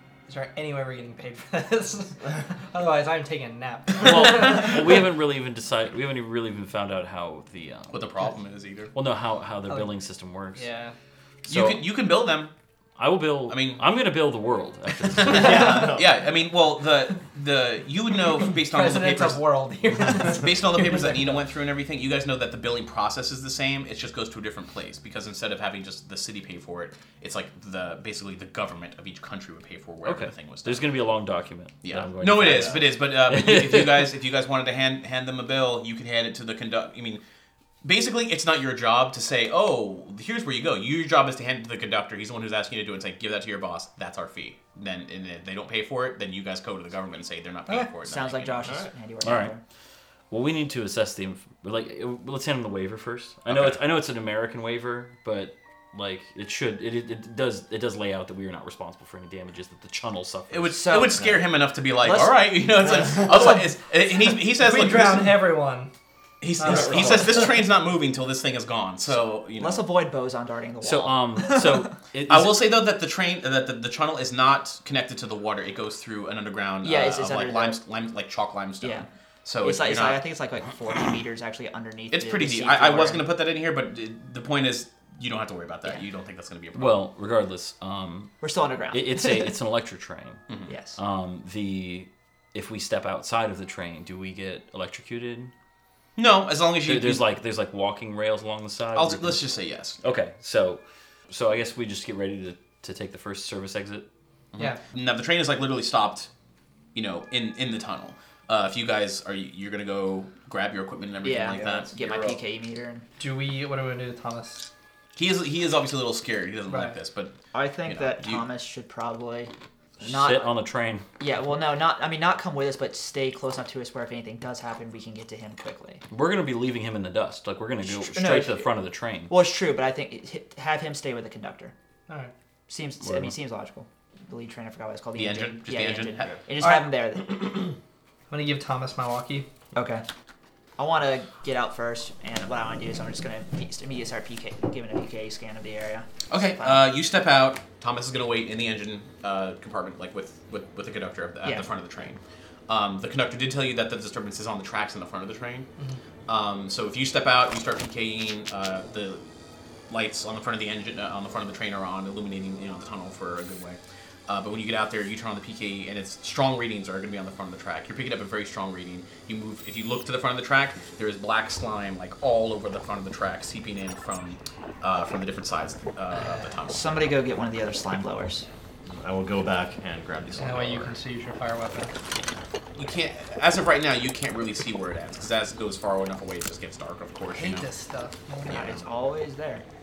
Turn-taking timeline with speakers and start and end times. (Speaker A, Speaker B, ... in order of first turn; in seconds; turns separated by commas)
Speaker A: 0.3-5.0, Speaker B: 4.0-8.1, Speaker C: 7.9-8.9, Speaker B: 8.9-10.7, Speaker A: 9.7-10.0, Speaker A: 10.5-10.9, Speaker B: 11.4-11.9, Speaker C: 11.4-12.5, Speaker B: 13.0-15.9, Speaker C: 13.5-13.8, Speaker C: 15.1-19.4, Speaker D: 15.2-16.1, Speaker A: 18.6-21.4, Speaker C: 20.1-30.9, Speaker B: 30.0-34.1, Speaker C: 31.8-37.2, Speaker C: 37.8-48.7, Speaker E: 48.0-49.6, Speaker B: 49.2-49.5, Speaker B: 50.3-61.2, Speaker C: 53.5-53.8, Speaker C: 60.5-65.4, Speaker E: 60.7-61.4, Speaker E: 62.0-63.6, Speaker A: 64.6-65.9, Speaker C: 66.4-69.8, Speaker A: 66.6-67.5, Speaker E: 66.7-67.5, Speaker E: 69.6-71.9, Speaker B: 70.8-72.7, Speaker C: 72.3-80.2, Speaker E: 76.8-77.8, Speaker E: 78.8-79.1, Speaker E: 79.6-83.2, Speaker C: 82.1-87.0, Speaker B: 86.7-88.3, Speaker E: 88.4-89.5, Speaker B: 88.9-90.4, Speaker E: 90.7-91.0, Speaker B: 91.0-95.5, Speaker C: 96.2-97.2, Speaker B: 96.8-99.5, Speaker C: 98.9-100.0, Speaker B: 100.0-104.0, Speaker C: 104.5-106.3, Speaker C: 106.9-112.4, Speaker E: 111.2-113.0, Speaker A: 113.2-114.7, Speaker C: 115.2-117.3, Speaker A: 116.7-117.0, Speaker E: 117.5-120.5, Speaker C: 117.8-118.4, Speaker B: 120.0-121.0, Speaker E: 121.2-126.0, Speaker B: 126.1-129.3, Speaker E: 127.8-128.7, Speaker E: 129.3-131.7, Speaker E: 132.7-137.6, Speaker B: 133.0-133.3, Speaker C: 135.2-136.4, Speaker A: 136.6-136.9, Speaker A: 138.3-139.5, Speaker E: 139.7-140.0, Speaker E: 140.8-146.9, Speaker C: 146.3-155.7, Speaker C: 156.3-159.2, Speaker C: 159.9-177.1, Speaker E: 176.7-178.4, Speaker D: 178.9-180.9, Speaker A: 180.4-181.9, Speaker C: 182.8-187.7, Speaker A: 187.3-188.8, Speaker E: 188.5-189.6, Speaker C: 188.5-188.8